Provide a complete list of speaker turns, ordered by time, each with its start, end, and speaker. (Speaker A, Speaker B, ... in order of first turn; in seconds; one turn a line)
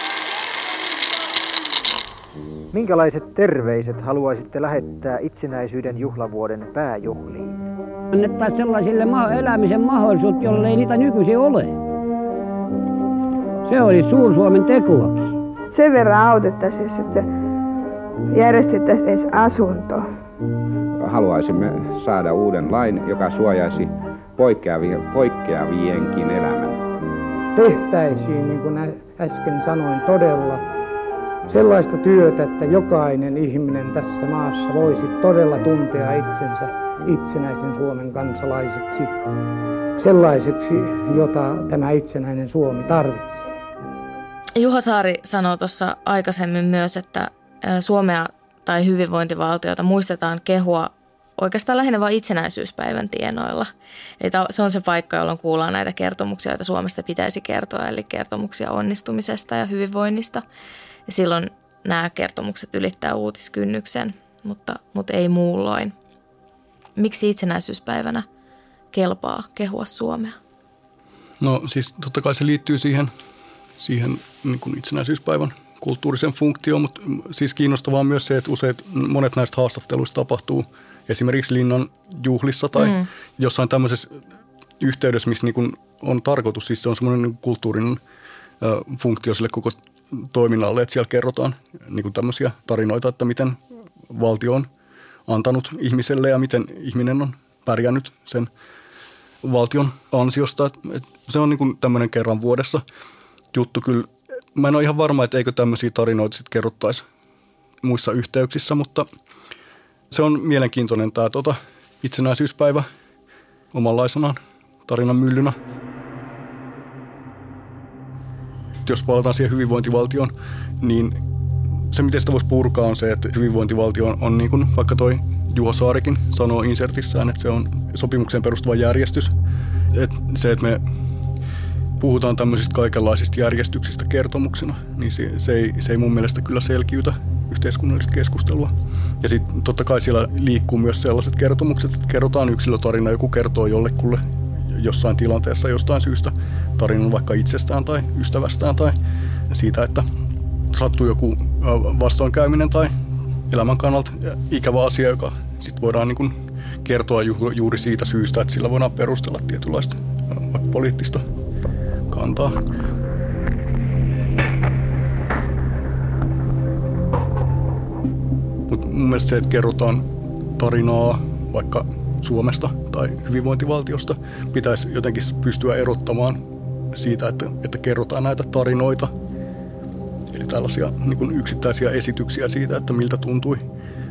Speaker A: 2.7-7.6
Speaker B: 8.1-11.8
Speaker B: 13.7-15.3
Speaker C: 15.7-17.3
Speaker C: 18.3-20.1
Speaker D: 21.0-26.8
Speaker E: 27.6-30.6
Speaker E: 31.5-39.2
Speaker E: 40.0-43.5
Speaker F: 44.5-60.4
Speaker F: 61.1-65.9
Speaker F: 67.0-68.3
Speaker F: 68.9-70.4
Speaker G: 71.4-73.1
Speaker G: 73.8-84.2
Speaker F: 82.8-83.1
Speaker G: 84.8-88.0
Speaker G: 88.6-94.7
Speaker G: 95.3-98.5
Speaker G: 99.4-102.8
Speaker G: 103.5-107.0
Speaker G: 107.8-109.1
Speaker G: 110.1-112.9
Speaker G: 113.7-115.6
Speaker G: 118.8-121.2
Speaker G: 121.9-129.3
Speaker G: 129.9-130.8
Speaker G: 132.0-149.0
Speaker G: 149.5-150.1
Speaker G: 150.7-152.9
Speaker G: 153.5-161.2
Speaker G: 162.1-162.6
Speaker G: 168.7-170.1
Speaker G: 170.6-176.4
Speaker G: 176.9-179.1
Speaker G: 180.3-183.6